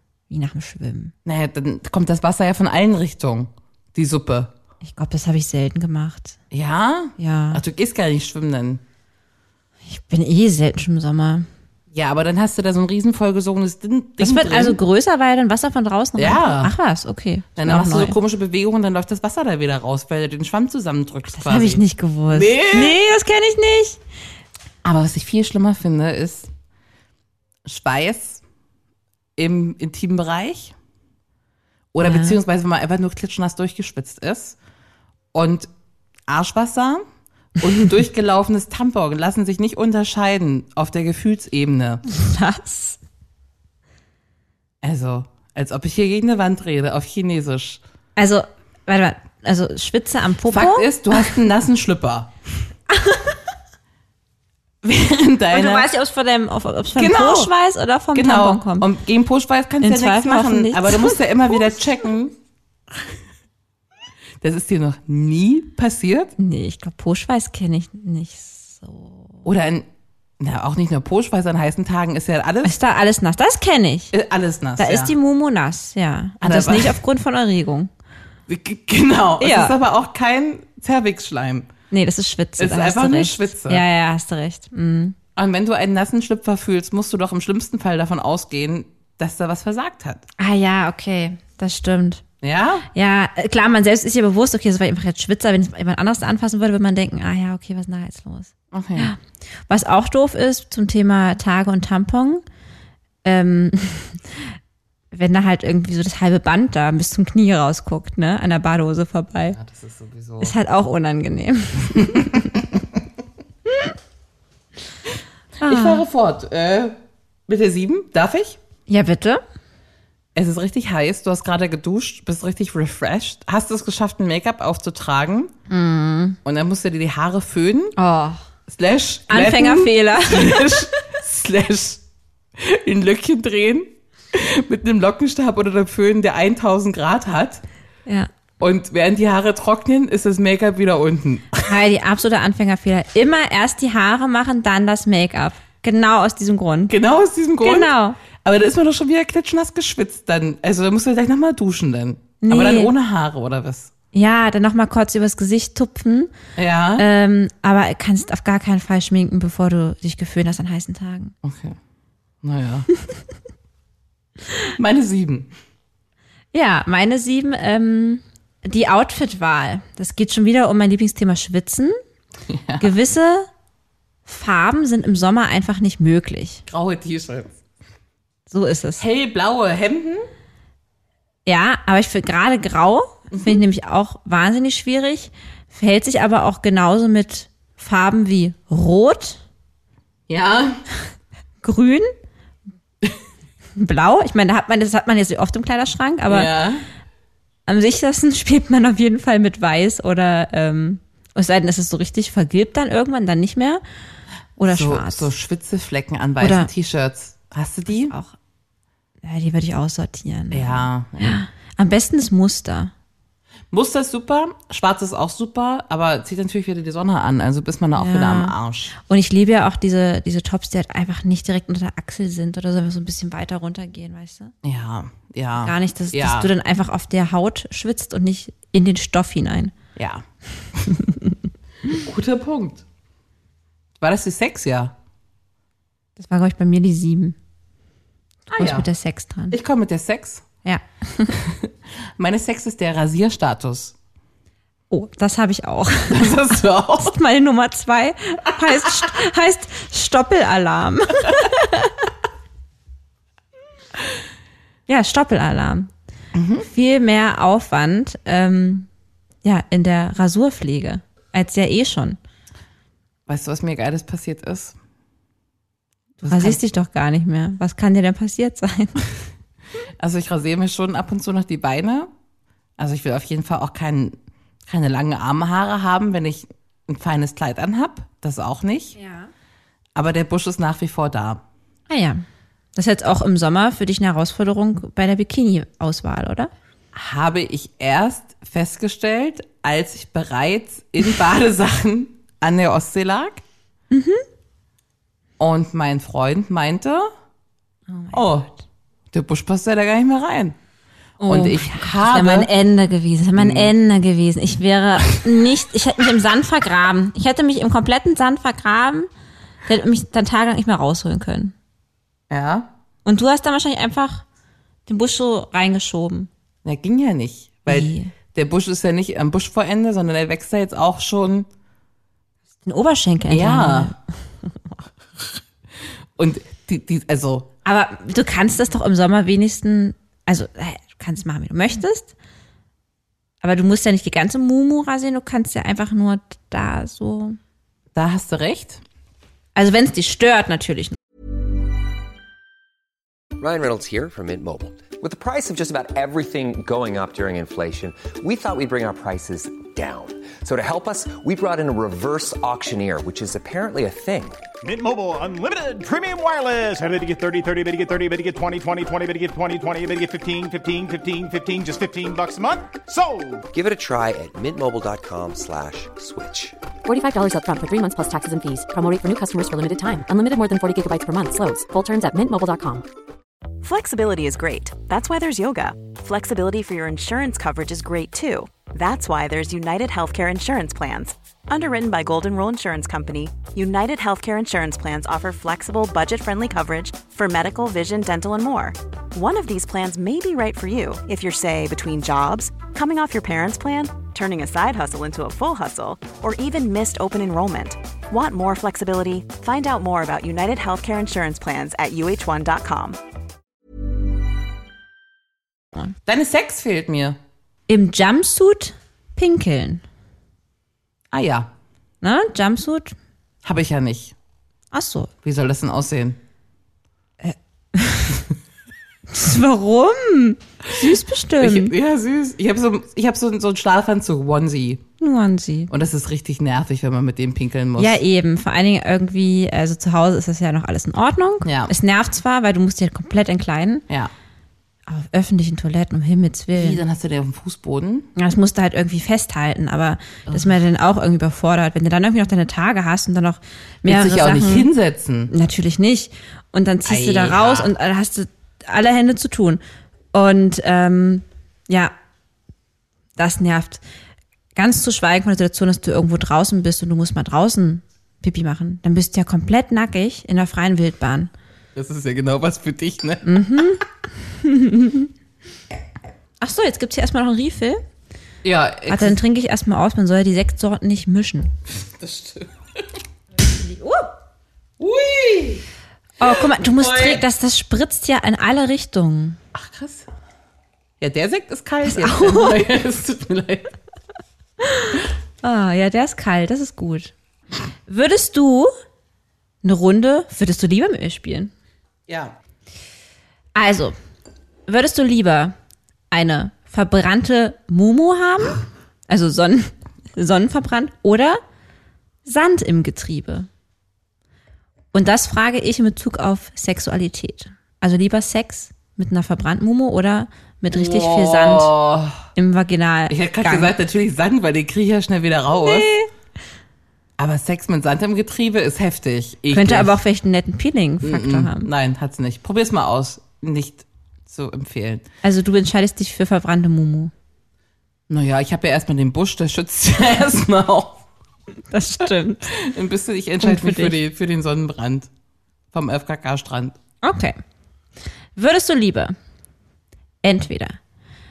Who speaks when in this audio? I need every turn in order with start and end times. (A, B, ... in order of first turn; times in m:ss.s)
0:00.3-0:01.1 A
0:01.2-0:04.5 B
0:04.8-0:06.4 A
0:06.5-0:08.8 B
0:07.2-0:07.6 A
0:09.9-0:11.5 A
0:11.9-0:14.8 B
0:14.2-0:18.2 A
0:16.2-0:16.7 B
0:17.6-0:23.0 B
0:21.3-0:24.0 A
0:24.8-0:26.5 B
0:27.6-0:28.4 B
0:29.4-0:30.8 B
0:31.9-0:34.6 B
0:32.0-0:32.4 A
0:35.3-0:35.7 B
0:36.3-0:37.0 B
0:37.6-0:42.0 B
0:42.1-0:43.0 A
0:44.8-0:47.8 B
0:48.2-0:51.4 A
0:50.5-0:52.4 B
0:52.9-0:53.4 A
0:54.8-0:55.9 B
0:55.5-0:58.9 A
0:57.0-0:57.5 B
0:58.2-1:02.4 B
0:59.8-1:01.6 A
1:04.4-1:06.4 B
1:06.4-1:09.3 A
1:09.4-1:09.9 B
1:10.4-1:12.8 B
1:12.6-1:14.1 A
1:14.1-1:15.1 B
1:14.8-1:17.9 A
1:16.4-1:17.0 B
1:18.5-1:21.7 B
1:19.4-1:19.8 A
1:21.9-1:25.2 A
1:22.6-1:23.8 B
1:25.4-1:30.2 B
1:30.4-1:32.2 A
1:32.4-1:32.9 B
1:32.9-1:42.4 A
1:38.7-1:39.1 B
1:43.2-1:44.5 A
1:45.1-1:49.6 A
1:49.5-1:50.5 B
1:50.4-1:52.6 A
1:52.0-1:52.8 B
1:55.6-1:56.0 A
1:55.6-1:58.6 B
1:58.9-1:59.4 A
2:00.4-2:05.5 B
2:05.7-2:06.4 A
2:06.4-2:08.0 B
2:08.0-2:08.4 A
2:08.7-2:12.0 B
2:09.3-2:11.0 A
2:12.6-2:17.6 B
2:18.6-2:21.8 B
2:21.6-2:27.0 A
2:26.9-2:33.9 B
2:27.6-2:28.2 A
2:32.4-2:32.9 A
2:34.1-2:36.3 A
2:36.6-2:37.1 B
2:37.0-2:41.3 A
2:41.4-2:41.8 B
2:42.4-2:42.9 B
2:44.8-2:45.5 B
2:46.5-2:52.0 A
2:52.5-2:53.0 B
2:52.8-2:53.5 A
2:54.3-2:56.6 A
2:56.7-2:57.6 B
2:58.5-2:59.0 A
2:59.0-3:00.3 B
3:01.5-3:09.4 A
3:03.3-3:03.6 B
3:10.3-3:10.8 B
3:11.6-3:12.1 A
3:13.8-3:16.5 A
3:16.3-3:16.9 B
3:17.7-3:23.8 A
3:24.6-3:28.2 B
3:24.6-3:25.3 A
3:26.4-3:26.7 A
3:27.9-3:28.4 A
3:29.2-3:32.9 A
3:30.5-3:31.4 B
3:33.7-3:39.0 B
3:38.0-3:44.5 A
3:44.6-3:46.5 B
3:45.6-3:49.7 A
3:50.0-3:50.2 B
3:51.0-3:51.3 A
3:51.9-3:52.8 B
3:54.0-3:55.0 B
3:56.2-3:57.4 A
3:58.5-3:59.6 A
3:58.5-3:58.9 B
3:59.5-4:00.4 B
4:00.6-4:01.4 A
4:01.4-4:04.0 B
4:04.9-4:06.4 A
4:06.1-4:07.2 B
4:07.0-4:12.0 A
4:08.7-4:09.0 B
4:14.9-4:15.9 A
4:16.3-4:16.7 B
4:16.6-4:18.9 A
4:19.4-4:22.2 A
4:23.3-4:24.8 B
4:26.2-4:26.6 B
4:26.2-4:29.0 A
4:30.0-4:32.1 B
4:32.8-4:39.0 B
4:39.0-4:39.3 A
4:40.0-4:41.4 B
4:41.9-4:42.2 A
4:42.8-4:46.5 A
4:46.9-4:53.4 B
4:53.9-4:54.2 A
4:55.4-4:57.1 B
4:57.9-4:58.6 A
4:58.1-4:58.5 B
4:59.1-5:00.6 B
5:01.2-5:09.1 A
5:01.3-5:02.5 B
5:03.4-5:03.7 B
5:09.7-5:11.6 A
5:12.3-5:12.7 B
5:13.0-5:14.2 A
5:14.9-5:16.3 A
5:16.6-5:21.5 B
5:17.7-5:18.1 A
5:22.6-5:24.0 A
5:23.3-5:23.9 B
5:26.2-5:27.5 B
5:27.6-5:32.1 A
5:33.4-5:37.4 A
5:37.9-5:38.8 B
5:39.6-5:41.0 A
5:43.4-5:54.4 C
5:54.6-6:03.4 D
6:03.5-6:06.6 C
6:06.9-6:12.8 E
6:13.6-6:43.0 F
6:46.1-6:47.2 B
6:47.7-6:49.8 A
6:51.1-6:51.5 B
6:52.0-6:53.0 A
6:53.4-6:54.2 B
6:54.7-6:55.1 A
6:55.2-6:56.2 B
6:57.2-6:58.2 A
6:59.1-7:01.7 A
7:00.8-7:04.8 B
7:05.0-7:05.7 A
7:05.7-7:08.0 B
7:07.8-7:13.8 A
7:11.4-7:11.7 B
7:14.9-7:16.8 A
7:16.5-7:18.1 B
7:18.2-7:24.7 A
7:20.3-7:20.6 B
7:23.8-7:25.3 B
7:25.3-7:29.6 A
7:26.8-7:27.7 B
7:30.1-7:31.9 A
7:33.2-7:33.8 A
7:34.6-7:41.3 A
7:41.8-7:43.6 B
7:43.2-7:45.1 A
7:46.4-7:47.8 A
7:48.4-7:49.2 B
7:48.9-7:51.5 A
7:51.8-7:52.8 B
7:53.5-7:54.1 A
7:54.8-7:55.6 B
7:56.2-7:59.4 A
7:56.2-7:57.2 B
7:59.5-8:00.1 B
8:01.0-8:03.8 B
8:01.8-8:02.6 A
8:04.6-8:07.1 A
8:07.9-8:08.7 A
8:09.6-8:11.5 A
8:12.1-8:12.4 B
8:13.6-8:14.0 A
8:14.7-8:15.6 A
8:16.1-8:21.4 A
8:22.2-8:23.5 A
8:24.9-8:31.8 A
8:30.7-8:32.2 B
8:32.4-8:33.8 A
8:33.1-8:35.9 B
8:35.5-8:36.1 A
8:37.2-8:40.0 B
8:39.5-8:41.7 A
8:41.0-8:45.1 B
8:45.2-8:47.1 A
8:48.1-8:51.0 B
8:51.7-8:52.5 A
8:52.5-8:55.1 B
8:53.4-8:54.0 A
8:55.7-8:56.8 B
8:57.0-8:57.4 A
8:58.4-8:59.2 A
9:00.2-9:00.8 A